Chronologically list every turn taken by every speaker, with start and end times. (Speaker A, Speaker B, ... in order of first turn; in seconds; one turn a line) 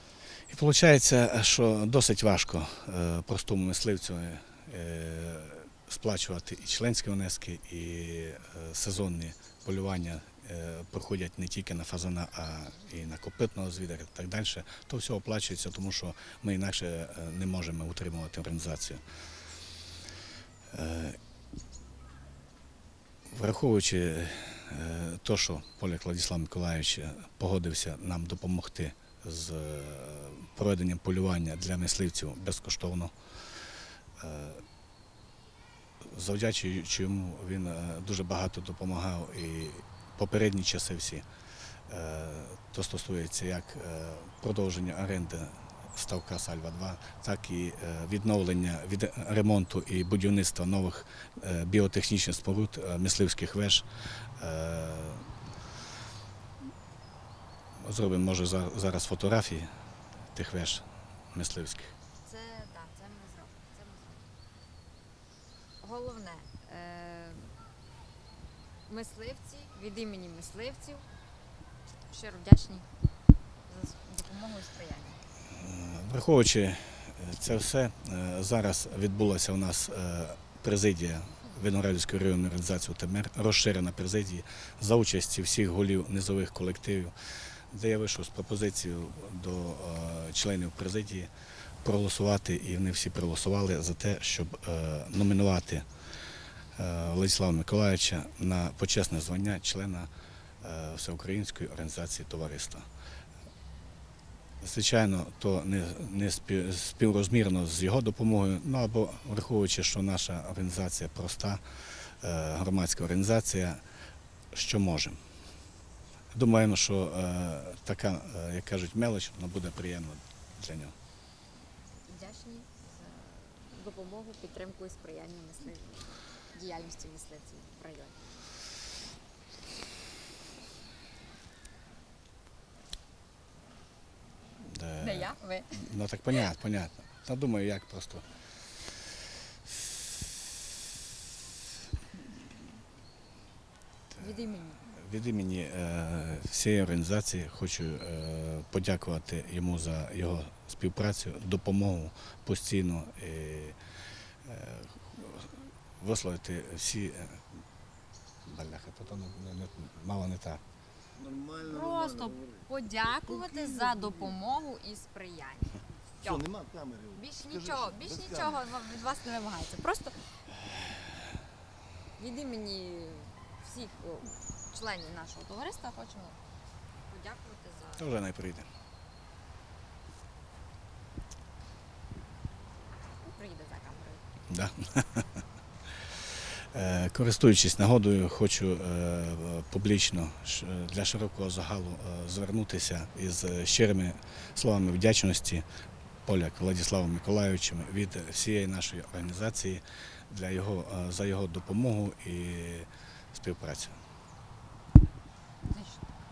Speaker A: 0.5-19.0
Speaker A: 20.7-21.2
Speaker A: 23.3-33.1
Speaker A: 34.2-34.6
Speaker A: 36.0-41.2
Speaker A: 41.9-53.9
Speaker A: 54.4-55.3
Speaker A: 57.8-59.7
Speaker A: 60.3-61.9
Speaker B: 62.2-64.3
Speaker B: 65.8-67.5
Speaker B: 68.9-71.0
Speaker B: 72.1-72.8
Speaker B: 73.7-75.2
Speaker A: 75.5-87.1
Speaker A: 87.7-91.3
Speaker A: 91.8-95.8
Speaker A: 96.7-100.1
Speaker A: 100.6-102.8
Speaker A: 104.6-111.6
Speaker A: 112.2-113.8
Speaker A: 114.5-115.2
Speaker A: 116.3-120.9
Speaker B: 122.1-128.3
Speaker A: 134.6-138.2
Speaker B: 135.0-136.5
Speaker A: 139.7-140.7
Speaker B: 144.2-144.8
Speaker A: 144.8-153.8
Speaker A: 154.4-157.5
Speaker A: 158.4-160.6
Speaker C: 161.2-162.7
Speaker B: 161.6-166.5
Speaker C: 163.3-164.3
Speaker C: 166.2-168.6
Speaker B: 167.1-170.2
Speaker B: 172.2-176.4
Speaker B: 177.1-178.2
Speaker A: 178.0-178.7
Speaker B: 183.2-184.2
Speaker A: 184.5-185.4
Speaker A: 186.7-195.7
Speaker A: 196.2-204.0
Speaker B: 205.6-206.0